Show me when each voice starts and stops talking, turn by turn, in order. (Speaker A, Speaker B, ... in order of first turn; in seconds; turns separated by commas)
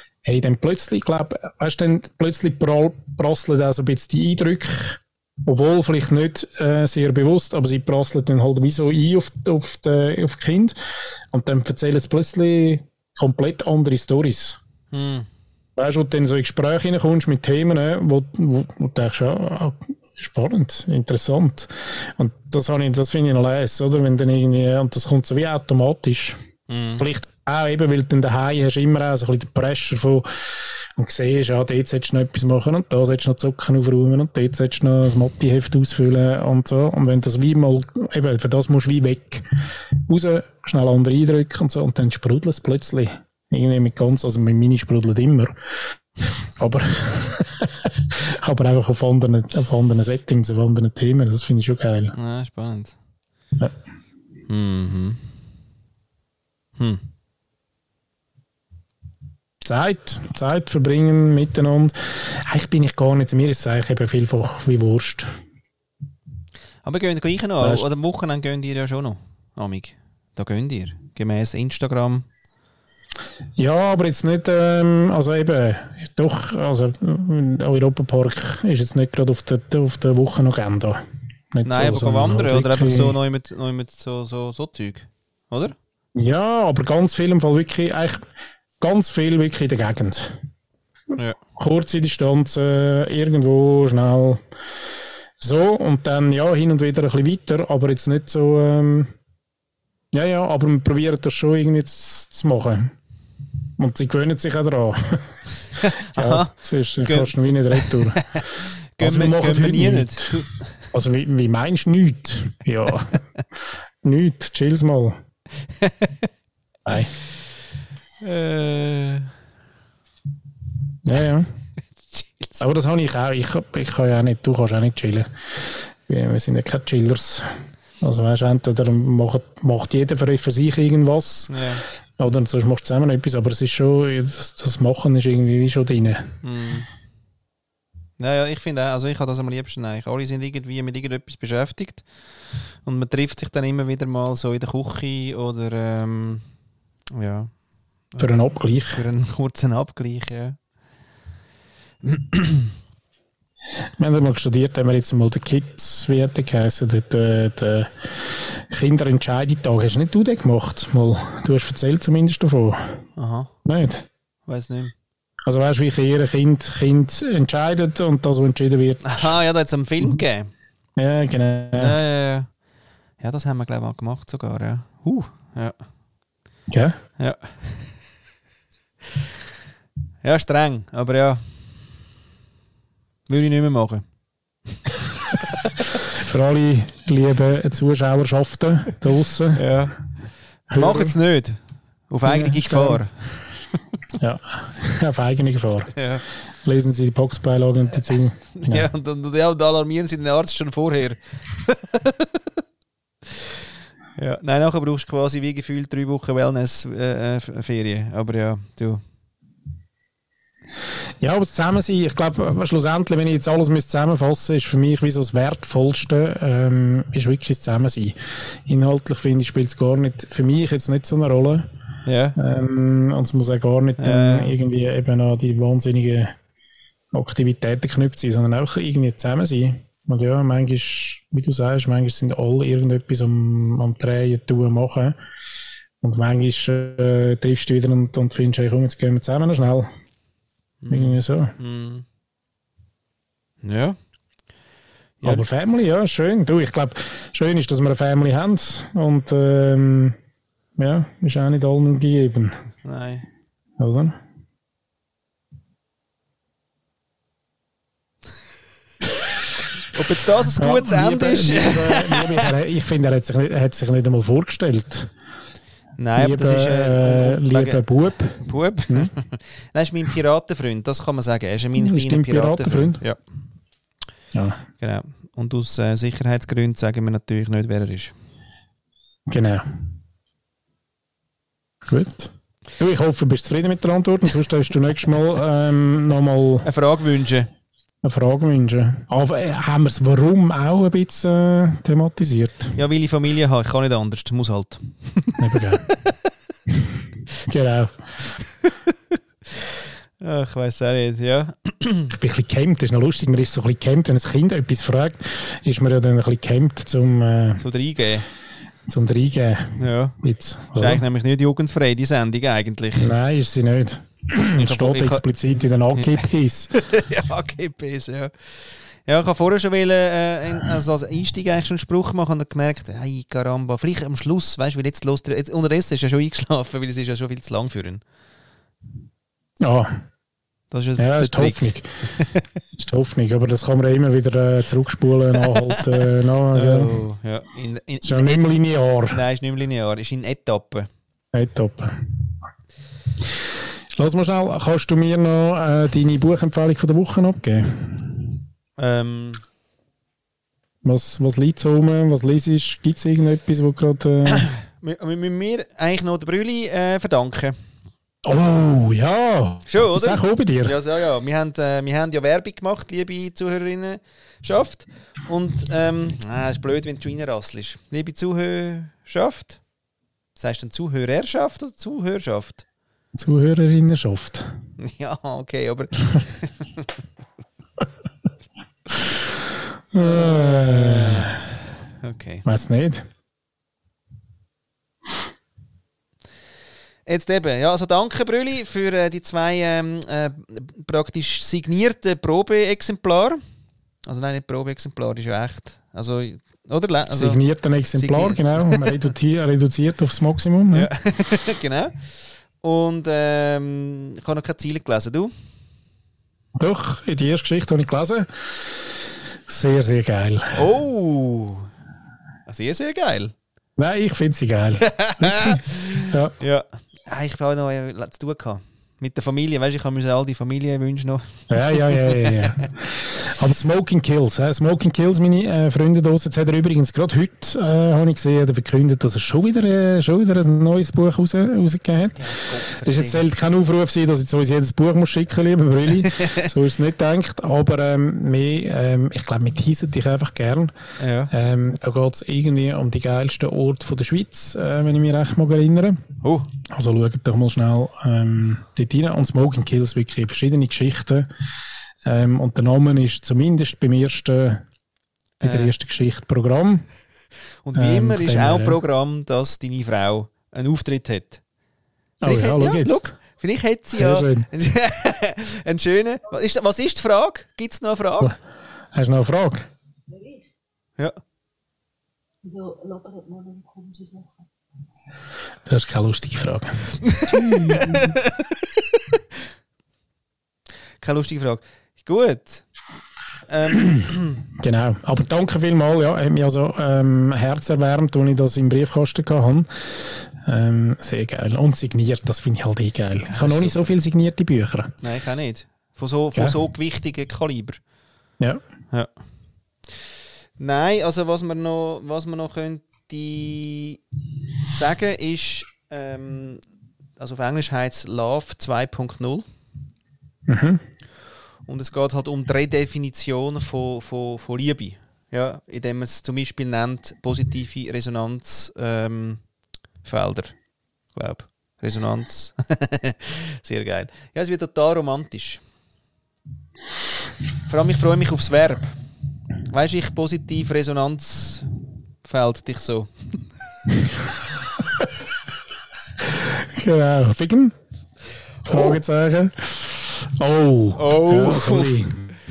Speaker A: 0.2-10.8, Speaker A: 11.3-14.6, Speaker B: 14.9-15.3, Speaker A: 15.8-26.4, Speaker B: 26.7-27.0, Speaker A: 27.0-30.3, Speaker A: 31.0-39.4, Speaker A: 40.1-45.6, Speaker A: 46.6-52.1, Speaker B: 52.1-53.0, Speaker B: 54.5-55.2, Speaker B: 56.8-57.0, Speaker A: 59.6-65.3, Speaker B: 66.8-72.3, Speaker A: 67.6-67.9, Speaker A: 73.6-81.0, Speaker A: 81.5-83.2, Speaker B: 81.7-85.8, Speaker A: 86.2-88.3, Speaker A: 88.8-90.3, Speaker A: 91.6-94.4, Speaker A: 95.4-99.1, Speaker A: 100.1-102.9, Speaker A: 103.8-105.3, Speaker B: 105.8-110.7, Speaker A: 106.1-108.3, Speaker A: 109.0-113.2, Speaker A: 114.0-115.2, Speaker B: 115.8-116.3, Speaker A: 116.8-117.1, Speaker B: 118.2-119.3, Speaker A: 121.0-121.5, Speaker B: 122.1-122.6, Speaker A: 122.6-131.7, Speaker B: 131.5-131.8, Speaker A: 132.2-136.3, Speaker B: 136.4-136.9, Speaker B: 138.2-142.0, Speaker B: 142.8-146.4, Speaker B: 147.1-147.5, Speaker A: 148.2-149.0, Speaker B: 148.9-150.6, Speaker B: 152.0-152.7, Speaker A: 154.0-163.0, Speaker B: 163.2-163.5, Speaker A: 163.7-164.1, Speaker B: 164.5-164.9, Speaker A: 165.4-169.4, Speaker B: 169.0-170.5, Speaker A: 171.0-172.0, Speaker B: 171.7-172.5, Speaker B: 173.2-175.8, Speaker A: 176.7-177.0, Speaker B: 177.2-177.7, Speaker B: 180.2-181.4, Speaker B: 183.3-184.0, Speaker A: 186.0-189.7, Speaker B: 189.5-189.9, Speaker A: 190.7-191.2, Speaker B: 190.7-191.6, Speaker B: 192.1-193.1, Speaker A: 192.2-193.0, Speaker A: 194.2-195.9, Speaker B: 195.9-196.2, Speaker A: 196.6-198.9, Speaker B: 198.6-202.6, Speaker B: 203.3-203.6, Speaker B: 204.2-209.0, Speaker A: 211.2-221.7, Speaker B: 222.1-222.4, Speaker A: 222.4-226.3, Speaker B: 224.0-224.6, Speaker A: 227.1-235.2, Speaker A: 236.0-239.9, Speaker B: 240.8-242.1, Speaker A: 240.9-241.6, Speaker B: 243.6-244.0, Speaker A: 245.2-250.2, Speaker A: 250.8-252.6, Speaker B: 252.8-253.2, Speaker A: 253.8-254.2, Speaker B: 259.9-262.5, Speaker A: 260.6-265.1, Speaker B: 266.0-267.8, Speaker A: 266.2-269.1, Speaker B: 268.4-273.2, Speaker A: 271.8-273.0, Speaker A: 274.3-274.6, Speaker B: 274.8-278.1, Speaker A: 279.3-279.7, Speaker A: 281.9-286.7, Speaker B: 286.6-287.5, Speaker A: 288.0-292.8, Speaker B: 292.8-296.1, Speaker A: 295.4-295.9, Speaker A: 297.5-298.1, Speaker B: 299.5-302.1, Speaker A: 302.1-307.6, Speaker B: 307.6-308.3, Speaker A: 308.9-311.0, Speaker B: 309.8-310.2, Speaker B: 310.8-313.1, Speaker A: 313.0-316.7, Speaker B: 314.6-315.2, Speaker B: 315.9-328.0, Speaker A: 329.6-330.0, Speaker B: 330.7-331.6, Speaker A: 331.0-331.9, Speaker B: 332.1-332.4, Speaker A: 332.8-337.0, Speaker B: 335.5-335.8, Speaker B: 336.5-338.4, Speaker A: 338.0-339.2, Speaker B: 339.1-340.9, Speaker A: 341.3-342.0, Speaker A: 344.0-348.3, Speaker B: 348.8-349.4, Speaker A: 350.9-354.5, Speaker B: 354.4-357.6, Speaker A: 358.2-360.8, Speaker B: 359.7-369.6, Speaker B: 370.4-372.6, Speaker A: 373.2-374.5, Speaker B: 374.8-376.9, Speaker A: 379.9-381.4, Speaker B: 379.9-381.4, Speaker B: 382.0-382.4, Speaker A: 382.4-383.1, Speaker B: 387.1-393.4, Speaker B: 394.1-397.4, Speaker A: 397.1-400.9, Speaker B: 397.9-399.1, Speaker B: 400.7-405.3, Speaker A: 406.6-409.0, Speaker A: 409.5-410.6, Speaker B: 410.6-411.7, Speaker B: 412.5-413.3, Speaker A: 413.8-416.4, Speaker B: 414.8-422.6, Speaker A: 421.5-440.7, Speaker B: 432.2-433.3, Speaker B: 436.0-436.4, Speaker B: 441.0-441.3, Speaker A: 441.3-446.0, Speaker B: 446.2-446.5, Speaker A: 446.7-451.3, Speaker A: 452.1-454.6, Speaker B: 455.4-455.8, Speaker A: 455.4-456.9, Speaker B: 457.6-461.4, Speaker A: 457.8-458.8, Speaker A: 462.2-463.2, Speaker B: 462.2-468.4, Speaker A: 463.9-464.5, Speaker A: 468.9-469.7, Speaker C: 470.1-470.4, Speaker C: 472.4-474.5, Speaker A: 475.7-476.9, Speaker B: 477.1-479.0, Speaker C: 477.2-478.2, Speaker B: 481.0-482.6, Speaker B: 483.5-484.4, Speaker A: 484.6-495.0, Speaker B: 493.2-493.9, Speaker B: 495.0-497.8, Speaker B: 500.6-504.0, Speaker B: 504.6-506.6, Speaker B: 507.2-509.4, Speaker A: 510.5-510.8, Speaker B: 511.7-519.4, Speaker B: 520.0-520.6, Speaker B: 521.1-525.6, Speaker B: 527.7-529.0, Speaker B: 529.7-531.7, Speaker B: 532.2-533.5, Speaker A: 536.3-537.8, Speaker A: 538.6-542.3, Speaker B: 538.6-539.0, Speaker B: 541.0-542.0